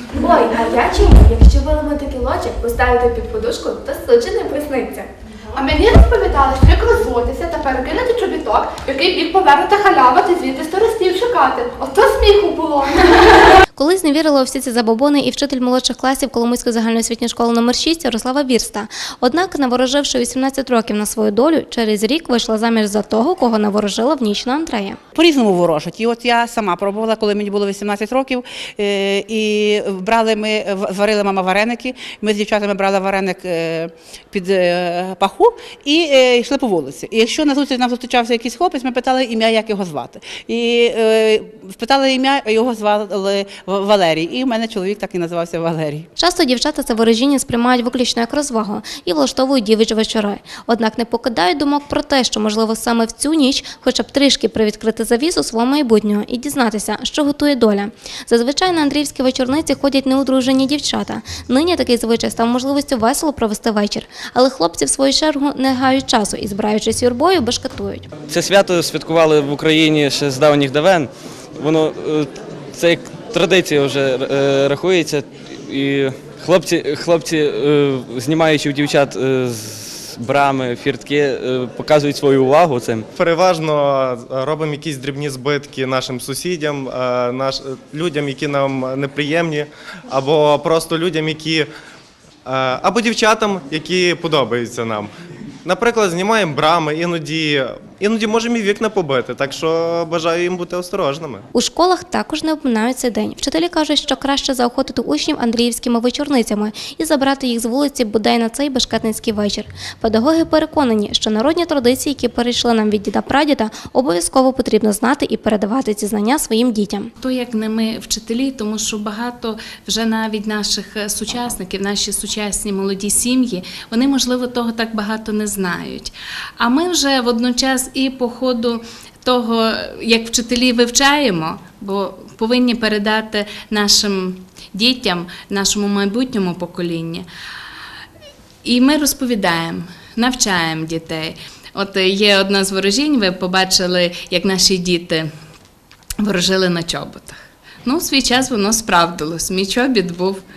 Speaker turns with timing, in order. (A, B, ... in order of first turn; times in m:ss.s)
0:00.1-0:05.1 A
0:05.5-0:13.5 B
0:13.7-0:25.0 C
0:25.2-0:46.1 D
0:46.2-1:08.1 C
1:08.3-1:23.0 E
1:23.1-1:31.7 F
1:32.4-1:35.1 F
1:35.6-1:41.5 F
1:41.5-1:57.1 C
1:57.2-2:17.2 G
2:18.6-2:25.3 G
2:26.2-2:30.4 G